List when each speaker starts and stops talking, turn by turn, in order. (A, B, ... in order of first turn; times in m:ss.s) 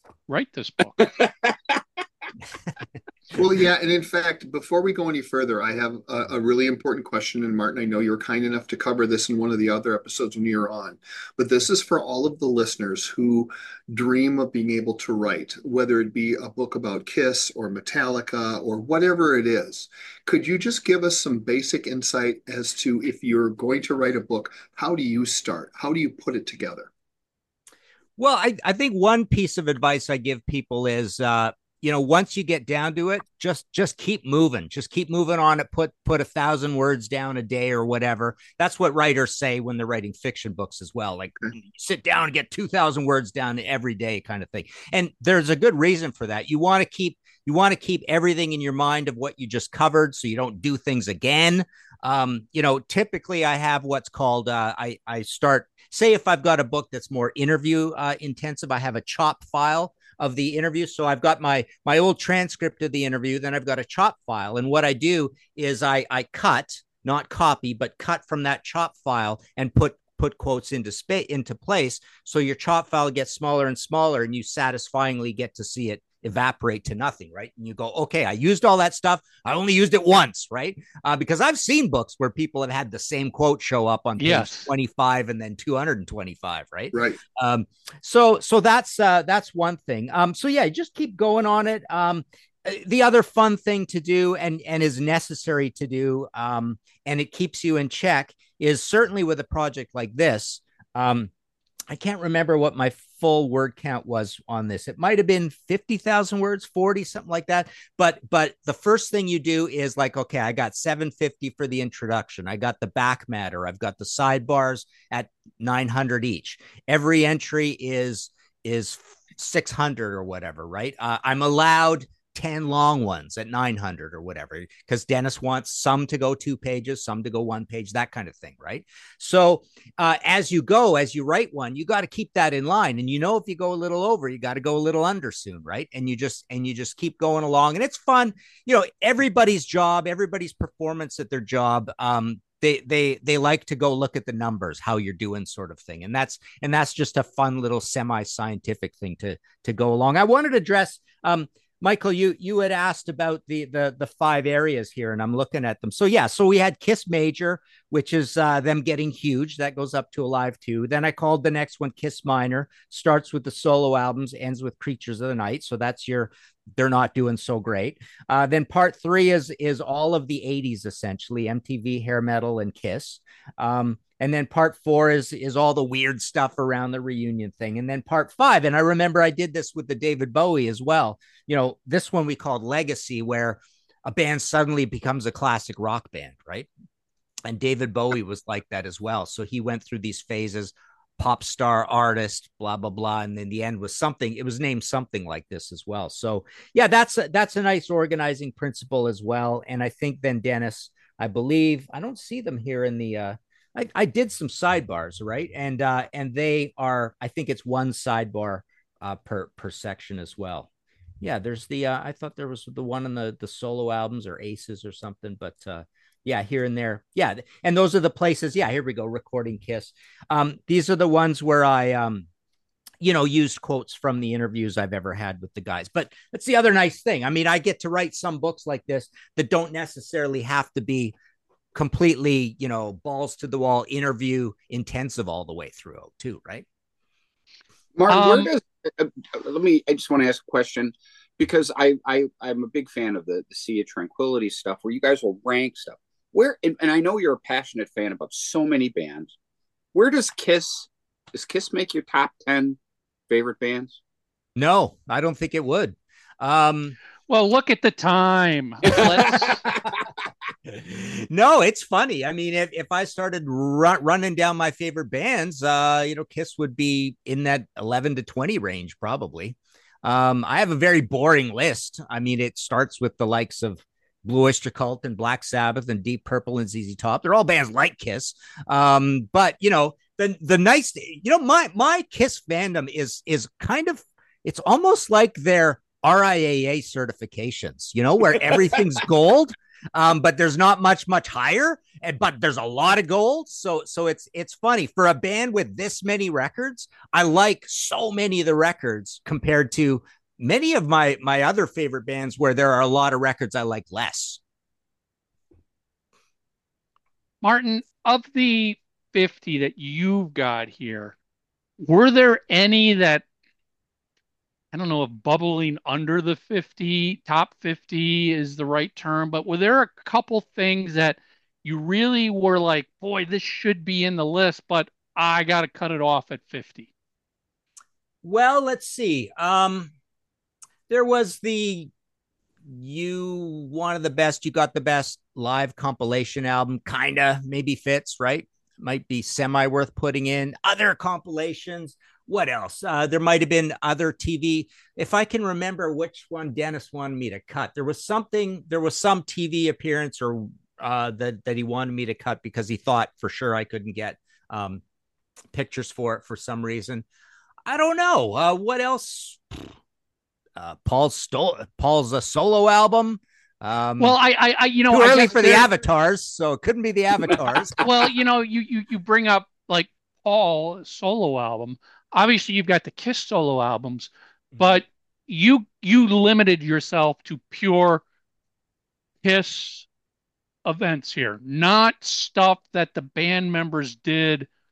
0:00.3-0:01.1 A
0:01.5-0:01.8 B
0:03.3-0:26.9 C
0:28.2-1:41.3 D
1:24.2-1:24.7 A
1:26.9-1:27.2 C
1:41.9-3:06.7 D
3:07.4-3:30.7 D
3:31.2-3:42.2 D
3:43.0-3:51.1 D
3:51.7-3:56.6 D
3:58.0-4:09.3 B
3:58.1-3:58.5 A
4:09.9-4:12.8 B
4:13.3-4:14.0 B
4:14.6-4:17.0 D
4:17.3-4:19.6 A
4:18.9-4:19.8 D
4:20.7-5:04.4 D
5:07.4-5:11.2 A
5:11.8-5:13.2 A
5:14.7-5:26.9 A
5:28.2-5:29.9 D
5:30.9-5:31.9 D
5:32.6-5:54.8 D
5:55.5-5:57.0 D
5:57.6-5:59.7 D
6:00.6-6:04.2 D
6:04.0-6:05.7 A
6:04.9-6:07.8 D
6:07.8-6:18.0 A
6:14.5-6:14.8 D
6:19.2-6:19.9 A
6:20.6-6:24.5 A